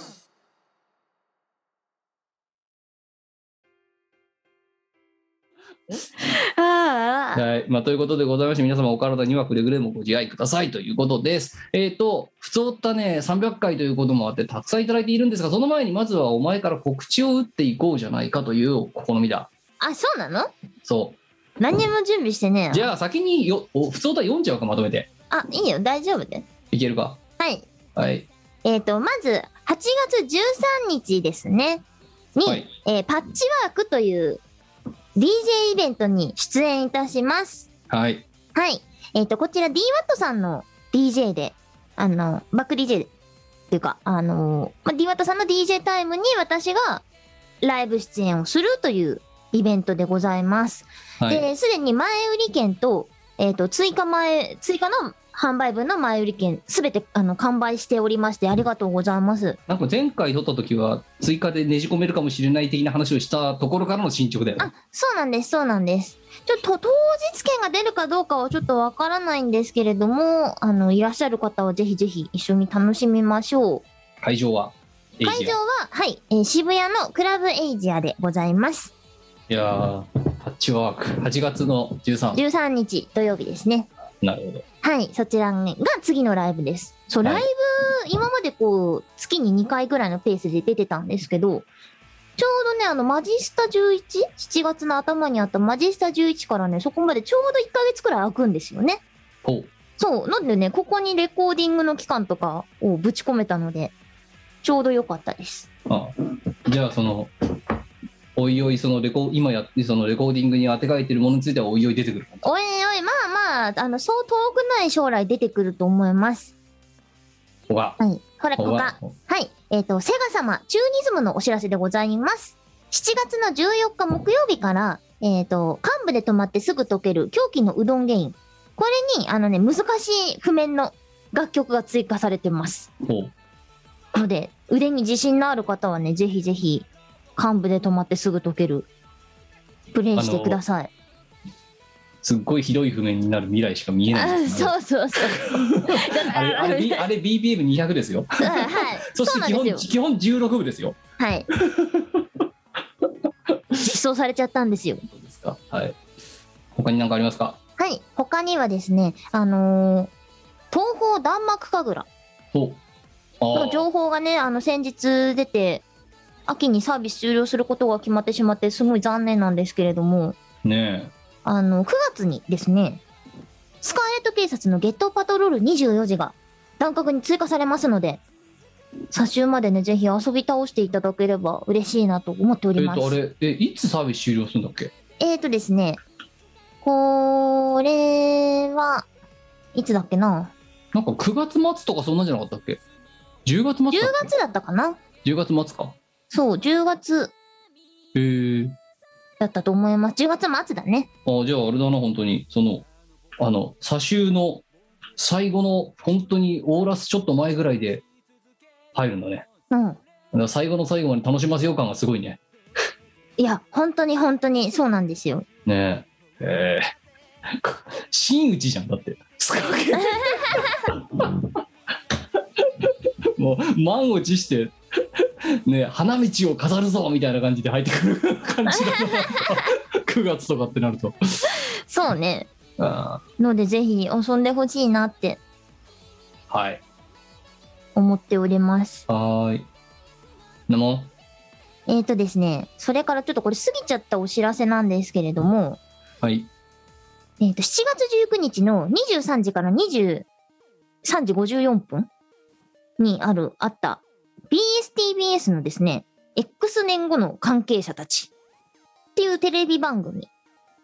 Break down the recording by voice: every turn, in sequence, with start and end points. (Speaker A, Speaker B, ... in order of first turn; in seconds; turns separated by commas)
Speaker A: 6.2-7.4, Speaker B: 7.3-19.5, Speaker A: 19.8-20.5, Speaker B: 20.8-21.2, Speaker A: 21.6-22.9, Speaker B: 22.7-25.1, Speaker A: 25.3-26.5, Speaker B: 26.7-27.2, Speaker A: 27.4-27.7, Speaker B: 27.9-28.3, Speaker A: 28.6-31.8, Speaker A: 32.4-34.4, Speaker A: 35.2-37.7, Speaker B: 37.9-38.2, Speaker A: 38.5-43.1, Speaker A: 43.7-47.0, Speaker A: 47.6-59.6, Speaker B: 51.2-51.5, Speaker B: 59.7-64.7, Speaker A: 64.6-73.8, Speaker B: 74.2-75.6, Speaker A: 75.2-78.9, Speaker B: 79.5-82.4, Speaker A: 82.3-83.9, Speaker B: 84.2-84.6, Speaker A: 84.8-91.7, Speaker A: 92.4-99.0, Speaker B: 99.4-99.7, Speaker A: 100.0-104.0, Speaker A: 104.6-105.7, Speaker B: 105.9-107.3, Speaker B: 108.4-112.5, Speaker A: 112.4-116.5, Speaker B: 117.7-118.0, Speaker A: 118.0-132.9, Speaker B: 118.6-119.1, Speaker B: 133.0-133.3, Speaker A: 134.2-138.9, Speaker A: 139.9-140.9, Speaker B: 140.2-140.6, Speaker B: 142.2-144.8, Speaker A: 144.1-147.1, Speaker B: 145.4-151.0, Speaker A: 148.4-149.9, Speaker A: 151.2-151.5, Speaker B: 151.5-152.2, Speaker A: 153.8-155.1, Speaker B: 155.1-156.0, Speaker B: 156.7-157.6, Speaker A: 157.8-160.1, Speaker A: 160.7-162.1, Speaker B: 162.5-162.8, Speaker B: 163.4-163.9, Speaker A: 163.5-165.8, Speaker A: 166.5-170.4, Speaker B: 170.6-171.1, Speaker A: 171.4-173.0, Speaker A: 173.8-178.2, Speaker A: 179.1-183.2, Speaker B: 182.8-184.9, Speaker A: 185.2-186.0, Speaker A: 186.8-189.1, Speaker A: 189.8-190.5, Speaker B: 190.9-192.8, Speaker B: 193.4-194.3, Speaker A: 193.9-195.0, Speaker B: 195.2-196.0, Speaker A: 196.3-197.3, Speaker B: 198.2-198.8, Speaker A: 199.4-201.1, Speaker B: 201.2-202.9, Speaker B: 203.4-204.7, Speaker B: 205.2-208.0, Speaker B: 208.9-209.5, Speaker A: 209.7-210.0, Speaker B: 210.3-212.4, Speaker A: 213.4-215.5, Speaker B: 215.7-216.9, Speaker B: 217.5-221.6, Speaker B: 222.6-231.5, Speaker A: 228.7-229.6, Speaker A: 231.5-232.5, Speaker B: 232.8-233.2, Speaker A: 233.4-235.4, Speaker B: 236.5-236.8, Speaker A: 237.9-239.1, Speaker B: 239.1-239.7, Speaker B: 240.7-241.1, Speaker A: 241.9-245.8, Speaker B: 246.2-246.5, Speaker A: 247.4-250.3, Speaker A: 251.0-252.1, Speaker A: 253.0-258.3, Speaker A: 259.2-260.3